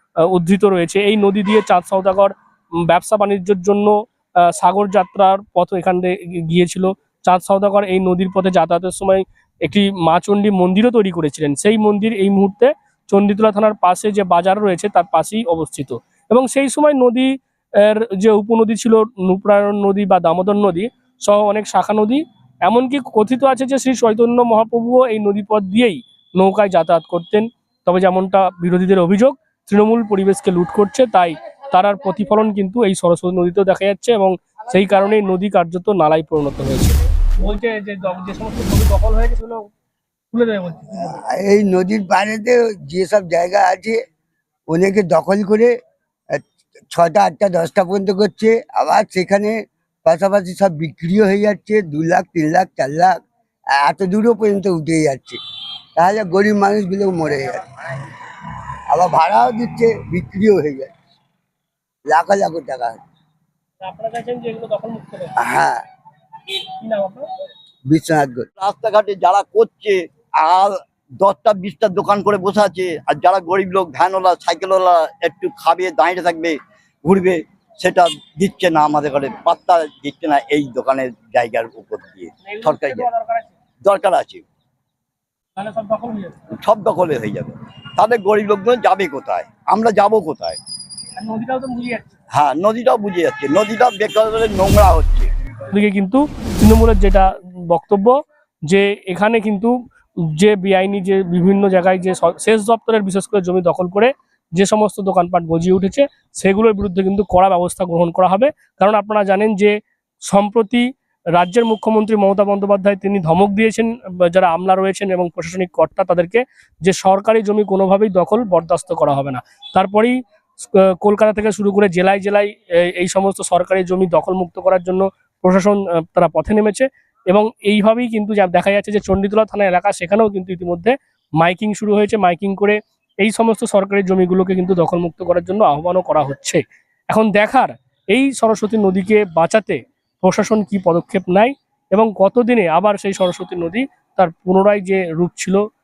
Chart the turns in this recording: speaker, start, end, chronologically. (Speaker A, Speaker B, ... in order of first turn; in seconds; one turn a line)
Speaker A: 0.3-2.3
Speaker A: 2.9-3.9
Speaker A: 4.6-17.3
Speaker A: 17.8-39.7
Speaker A: 40.3-41.0
Speaker B: 41.2-44.0
Speaker B: 44.7-45.8
Speaker B: 46.4-53.2
Speaker B: 53.8-55.4
Speaker B: 56.0-57.6
Speaker B: 58.9-60.9
Speaker B: 62.1-63.0
Speaker A: 63.8-65.3
Speaker B: 65.4-65.8
Speaker A: 66.8-67.3
Speaker B: 67.9-68.5
Speaker C: 68.6-83.1
Speaker A: 82.4-83.5
Speaker C: 83.8-84.4
Speaker A: 85.6-86.3
Speaker C: 86.6-90.6
Speaker A: 91.2-92.1
Speaker C: 92.3-95.3
Speaker A: 95.7-98.1
Speaker A: 98.7-99.7
Speaker A: 100.3-109.7
Speaker A: 110.3-110.8
Speaker A: 111.4-120.2
Speaker A: 121.0-145.6